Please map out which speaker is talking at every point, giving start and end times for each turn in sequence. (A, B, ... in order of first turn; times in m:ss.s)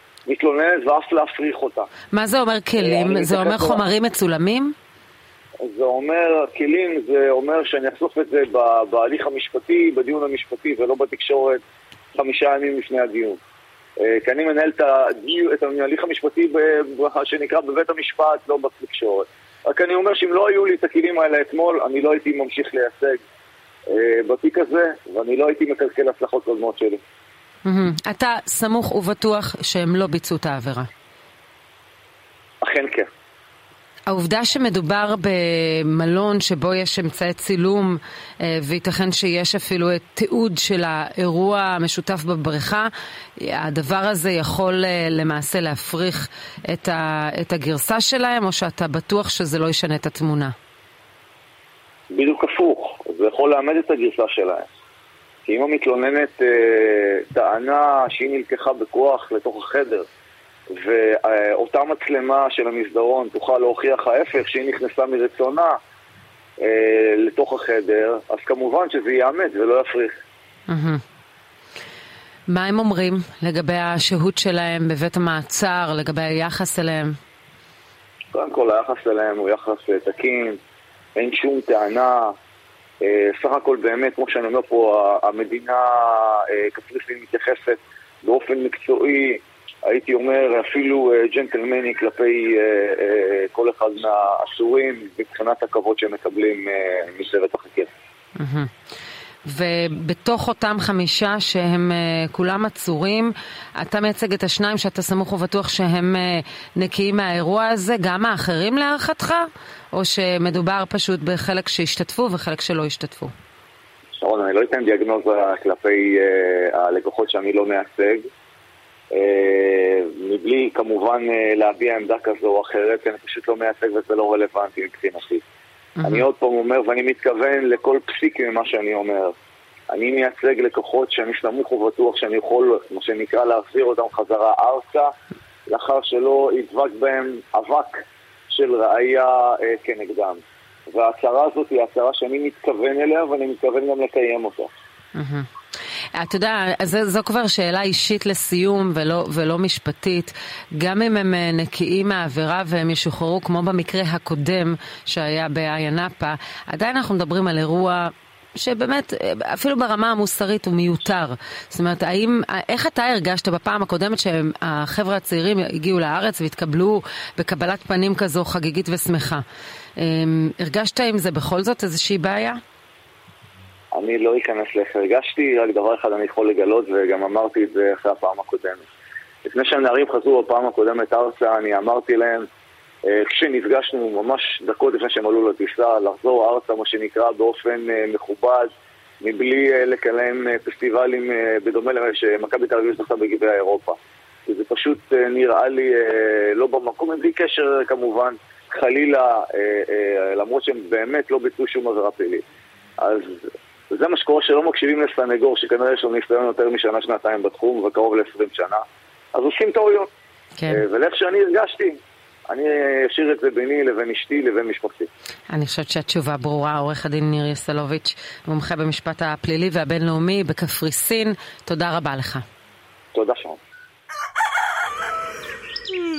0:00.3-0:01.9 A
0:02.1-0:04.7 B
0:02.8-0:03.8 A
0:05.6-0:11.6 A
0:12.1-0:13.4 A
0:14.0-0:23.2 A
0:23.9-0:27.0 A
0:27.6-0:30.9 B
0:32.6-0:33.1 A
0:34.1-0:50.5 B
0:52.1-0:54.7 A
0:55.4-1:00.1 A
1:00.7-1:05.8 A
1:06.6-1:10.2 A
1:10.7-1:11.0 B
1:12.5-1:17.2 B
1:18.3-1:20.6 A
1:21.2-1:22.3 A
1:23.0-1:37.9 A
1:38.4-1:38.7 B
1:39.5-1:53.3 B
1:54.2-1:58.3 A
1:59.1-2:05.4 A
2:06.0-2:09.3 A
2:09.9-2:15.1 A
2:15.7-2:24.7 A
2:25.2-2:25.5 B
2:26.1-2:49.4 B
2:50.0-2:52.6 B
2:53.9-2:58.8 A
2:59.4-3:02.5 A
3:03.1-3:22.4 A
3:23.0-3:30.1 A
3:30.7-3:35.1 A
3:35.5-3:42.4 B
3:43.1-3:43.6 A